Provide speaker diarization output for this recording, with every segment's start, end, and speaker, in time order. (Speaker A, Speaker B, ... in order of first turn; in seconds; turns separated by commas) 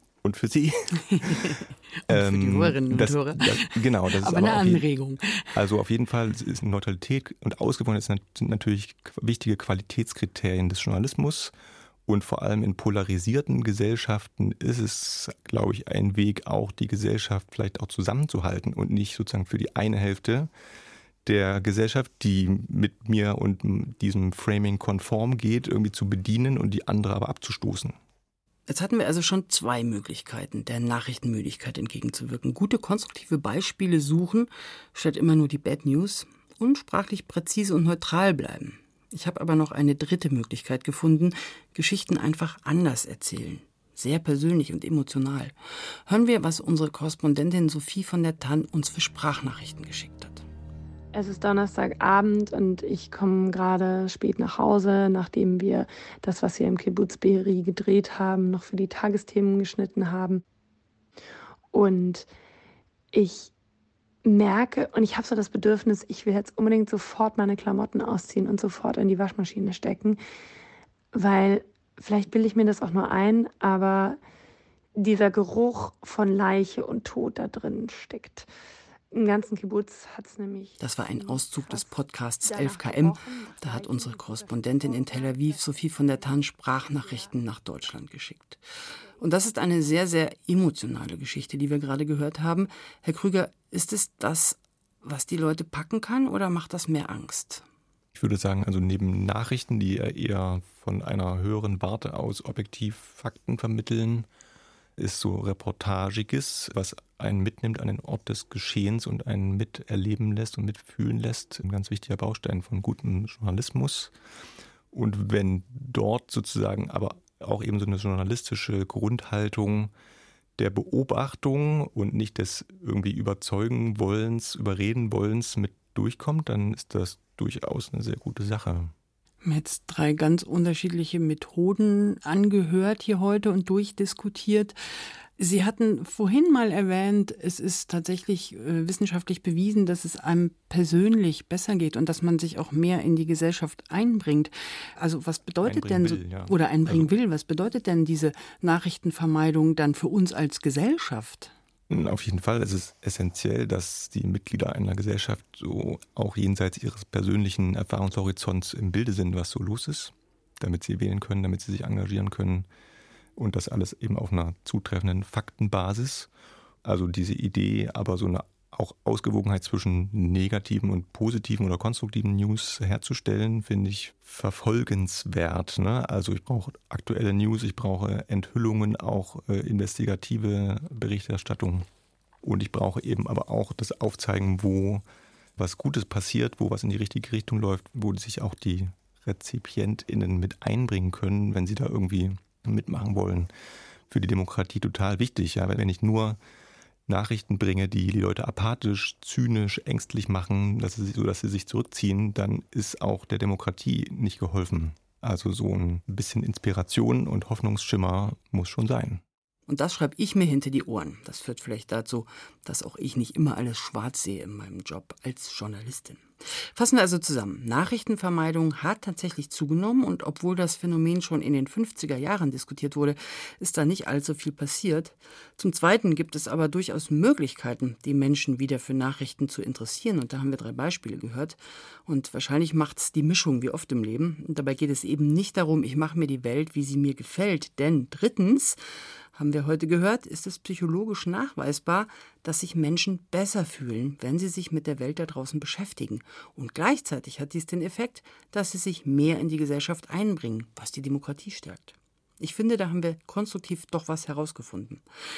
Speaker A: 0.2-1.5, Speaker B: 1.1-5.6, Speaker A: 2.1-4.8, Speaker A: 5.5-11.5, Speaker A: 12.1-20.5, Speaker A: 21.2-28.0, Speaker B: 28.7-45.5, Speaker B: 46.1-50.4, Speaker C: 51.1-60.4, Speaker C: 61.7-62.3, Speaker C: 63.1-63.5, Speaker C: 64.2-70.2, Speaker C: 71.1-74.2, Speaker C: 75.0-78.5, Speaker C: 79.1-86.3, Speaker B: 80.8-88.6, Speaker C: 87.0-87.3, Speaker B: 89.2-97.6, Speaker A: 98.1-104.3, Speaker A: 105.0-114.1, Speaker A: 114.9-119.9, Speaker A: 120.6-128.9, Speaker B: 129.4-134.7, Speaker B: 135.4-151.5, Speaker A: 145.6-147.1, Speaker A: 151.9-162.7, Speaker A: 163.4-166.3, Speaker A: 166.8-181.8, Speaker A: 182.4-185.0, Speaker A: 185.6-193.5, Speaker A: 194.1-196.4, Speaker A: 197.1-209.2, Speaker B: 209.7-216.2, Speaker B: 216.7-238.8, Speaker B: 239.3-255.0